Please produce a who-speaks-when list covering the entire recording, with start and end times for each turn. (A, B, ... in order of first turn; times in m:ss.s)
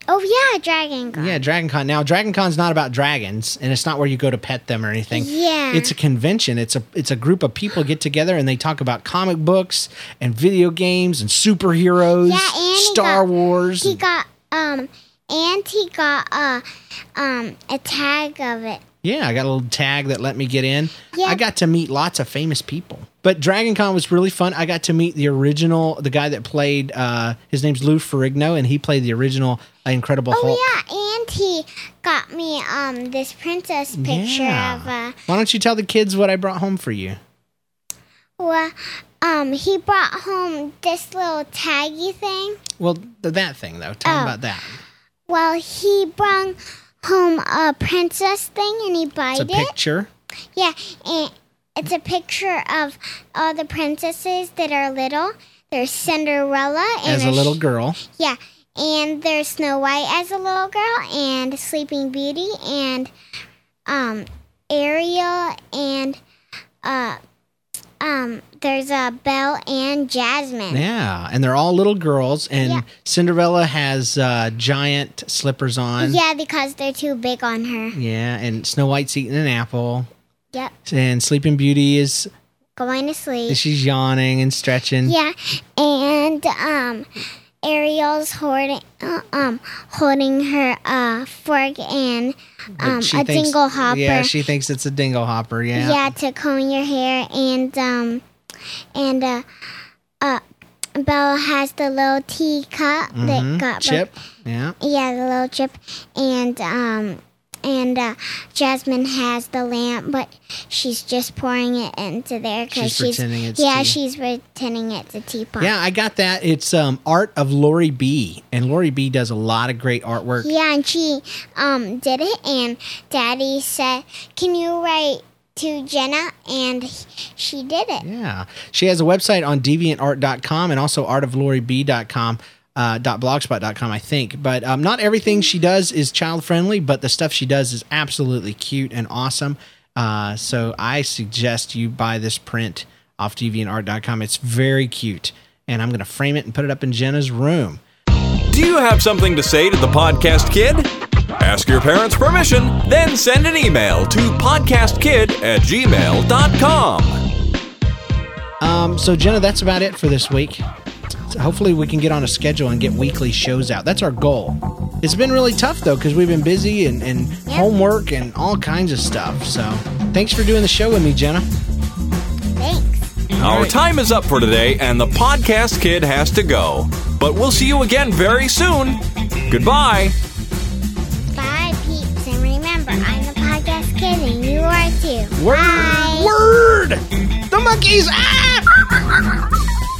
0:00.1-0:01.4 A
0:01.1-0:14.0 B
0:05.1-0:05.9 A
0:12.2-0:13.3 A
0:13.8-0:16.6 A
0:17.2-0:18.8 A
0:19.0-0:30.6 B
0:21.1-0:21.4 A
0:30.3-0:35.2 A
0:33.9-0:37.2 B
0:38.4-0:42.6 A
0:42.8-0:44.8 B
0:44.0-0:44.4 A
0:45.3-0:49.7 A
0:49.3-0:50.1 B
0:50.5-1:03.1 A
0:57.0-0:58.0 B
1:03.9-1:06.2 A
1:06.8-1:07.2 A
1:08.0-1:10.8 A
1:10.7-1:16.2 B
1:16.0-1:18.0 A
1:17.9-1:20.1 B
1:20.8-1:22.3 B
1:22.8-1:23.6 A
1:23.5-1:25.2 B
1:25.0-1:27.1 A
1:27.6-1:34.3 A
1:32.8-1:36.1 B
1:35.7-1:38.2 A
1:38.9-1:39.4 A
1:41.0-1:44.1 A
1:43.1-1:44.8 B
1:44.8-1:55.7 A
1:52.7-1:54.0 B
1:55.6-2:00.5 B
2:00.4-2:08.0 A
2:08.0-2:27.8 B
2:28.5-2:30.9 C
2:31.4-2:37.2 C
2:38.6-2:40.6 B
2:41.3-2:51.5 B
2:47.4-2:47.7 A
2:52.6-2:53.1 A
2:53.4-2:53.7 B
2:53.4-3:00.1 C
3:01.3-3:06.4 A
3:05.4-3:09.4 B